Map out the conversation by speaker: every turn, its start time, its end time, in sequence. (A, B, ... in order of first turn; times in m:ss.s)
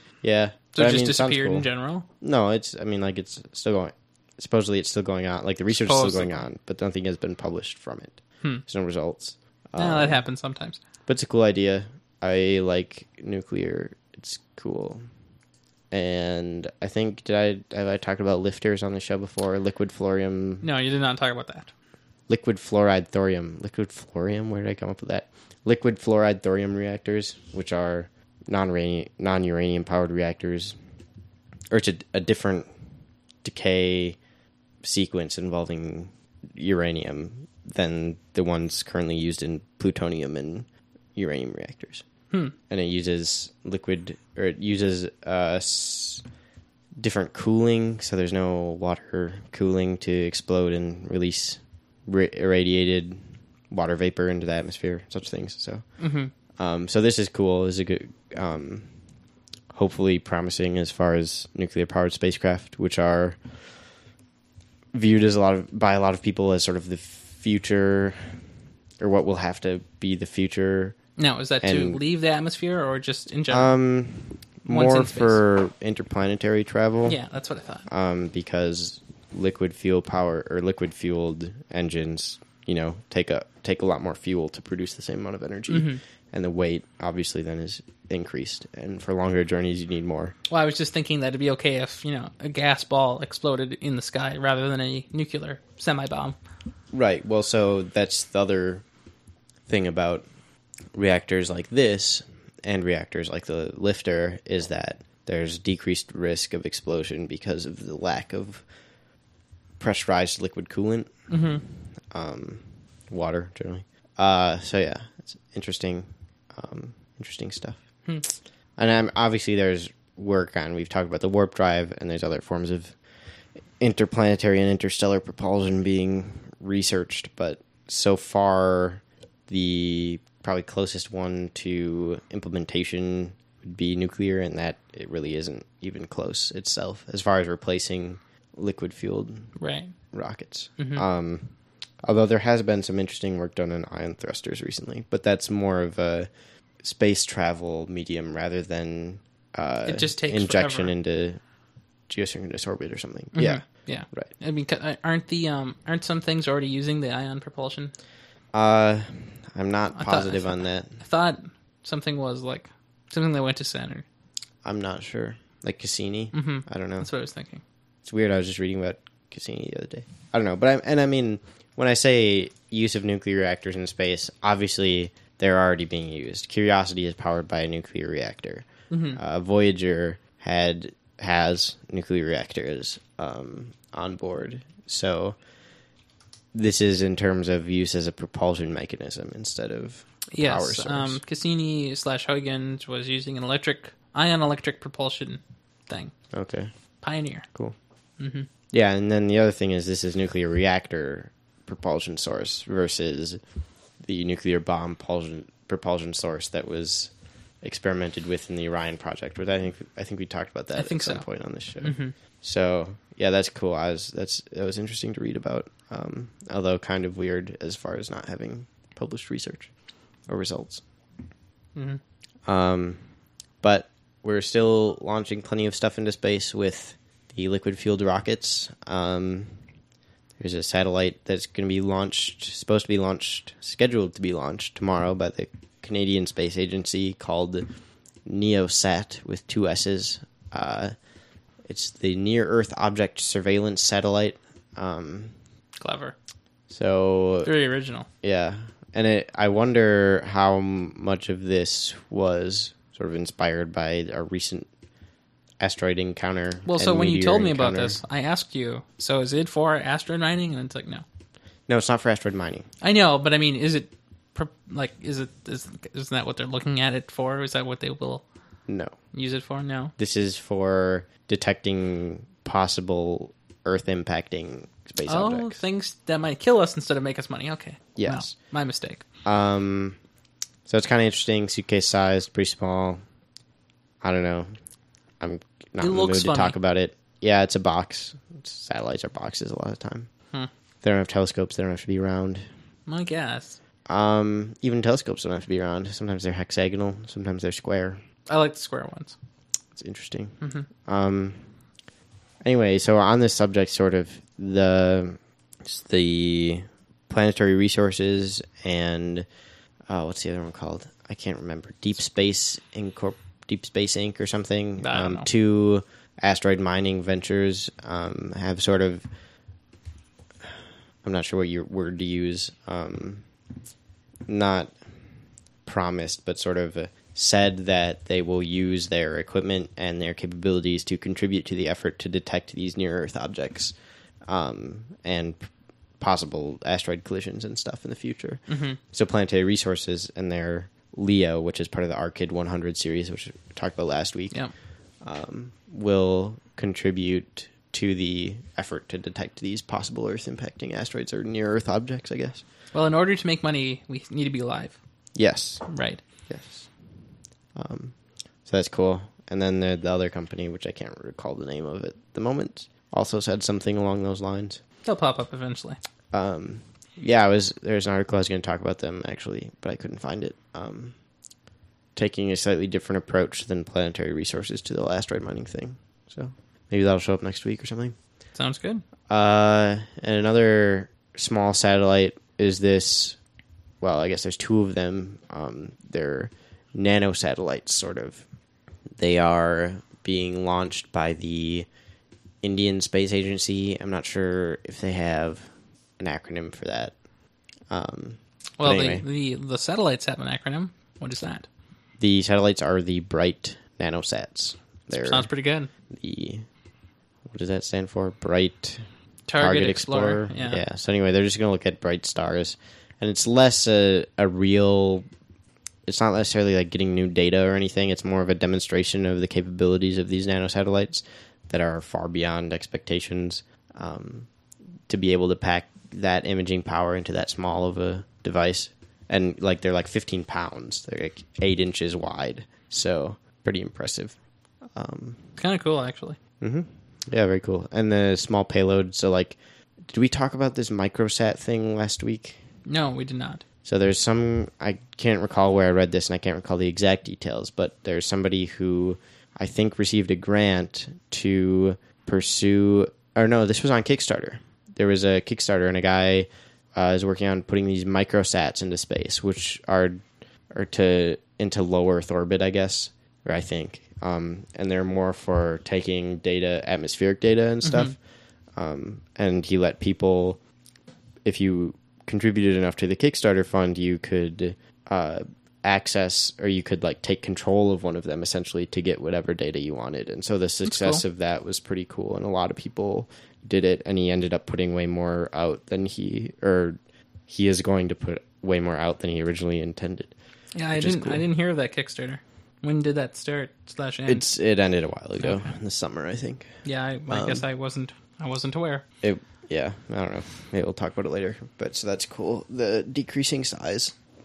0:00.2-0:01.7 A
0:00.7-0:02.1 B
0:02.2-0:10.2 A
0:05.7-0:06.4 B
0:09.8-0:10.8 B
0:11.1-0:15.0 A
0:15.9-0:20.6 A
0:20.6-0:21.7 B
0:22.3-0:30.8 A
0:31.7-0:32.7 A
0:33.4-0:34.2 A
0:34.8-0:42.0 A
0:42.7-0:46.2 A
0:47.0-0:55.9 A
0:56.0-0:56.3 B
0:56.6-0:58.9 A
0:59.7-1:03.4 A
1:04.9-1:08.4 A
1:09.0-1:11.0 A
1:11.2-1:13.7 B
1:11.6-1:12.0 A
1:13.5-1:17.2 A
1:14.7-1:15.4 B
1:17.0-1:17.9 B
1:17.9-1:30.4 A
1:25.7-1:26.0 B
1:30.5-1:36.4 B
1:36.9-1:38.8 A
1:39.7-1:40.2 A
1:40.9-1:48.6 A
1:49.8-1:51.1 A
1:51.3-1:51.6 B
1:52.1-1:57.8 A
1:58.8-2:03.0 A
2:03.8-2:19.5 A
2:19.6-2:19.9 B
2:20.1-2:21.5 A
2:20.8-2:21.0 B
2:22.0-2:26.3 A
2:26.8-2:31.4 A
2:29.9-2:30.9 B
2:32.1-2:34.3 A
2:33.4-2:37.9 B
2:38.5-2:41.0 A
2:40.0-2:44.0 B
2:44.6-2:47.1 A
2:46.3-2:47.6 B
2:48.0-3:05.4 A
2:58.9-2:59.2 B
3:06.5-3:11.2 A
3:10.3-3:16.1 B
3:16.3-3:16.7 A
3:17.0-3:17.5 B
3:18.2-3:18.5 B
3:18.7-3:23.4 A
3:24.0-3:39.7 A
3:30.8-3:31.3 B
3:31.8-3:32.1 B
3:40.3-3:40.8 A
3:42.5-3:43.0 A
3:43.6-3:49.6 A
3:50.4-3:57.7 A
3:58.3-4:01.0 A
4:01.6-4:05.3 A
4:05.8-4:06.1 B
4:06.7-4:07.5 A
4:07.4-4:08.1 B
4:08.2-4:14.7 A
4:15.6-4:18.0 A
4:16.7-4:21.0 B
4:21.7-4:22.7 A
4:22.8-4:28.2 B
4:28.7-4:29.0 A
4:29.1-4:29.9 B
4:30.0-4:35.6 A
4:35.1-4:39.0 B
4:38.0-4:38.3 A
4:39.2-4:40.0 A
4:40.7-4:43.0 A
4:44.0-4:44.5 A
4:45.2-4:50.1 A
4:45.8-4:46.6 B
4:50.8-4:52.4 A
4:52.9-4:53.6 B
4:53.9-4:58.0 A
4:58.3-4:59.2 B
4:59.8-5:01.4 A
5:00.4-5:00.7 B
5:02.4-5:09.3 A
5:09.9-5:19.1 A
5:14.8-5:15.3 B
5:21.0-5:23.2 A
5:24.3-5:24.7 A
5:25.6-5:33.8 A
5:34.3-5:35.5 A
5:36.0-5:44.4 A
5:38.5-5:38.8 B
5:45.0-5:52.4 A
5:52.7-5:54.8 B
5:55.2-5:55.6 A
5:55.7-5:56.0 B
5:56.3-5:56.7 A
5:57.6-5:58.0 A
5:58.5-6:04.6 A
6:04.8-6:05.8 B
6:06.1-6:11.0 A
6:12.0-6:18.0 A
6:18.4-6:18.8 B
6:19.1-6:23.2 A
6:23.8-6:28.2 A
6:29.0-6:31.7 A
6:32.4-6:37.0 A
6:37.7-6:39.0 A
6:38.6-6:41.5 B
6:42.0-6:45.3 A
6:44.9-6:45.7 B
6:45.9-6:46.5 A
6:47.3-6:48.9 A
6:49.3-6:50.6 B
6:49.4-6:55.1 A
6:55.9-7:04.3 A
7:04.9-7:14.2 A
7:14.8-7:15.2 A
7:15.4-7:16.2 B
7:16.4-7:22.4 A
7:22.7-7:23.4 B
7:23.6-7:48.0 A
7:47.6-7:48.0 B
7:48.6-7:50.4 A
7:51.2-8:10.1 A
8:00.6-8:01.0 B
8:10.6-8:14.3 B
8:10.8-8:11.2 A
8:14.1-8:16.5 A
8:16.6-8:18.8 B
8:17.1-8:17.4 A
8:19.0-8:23.9 A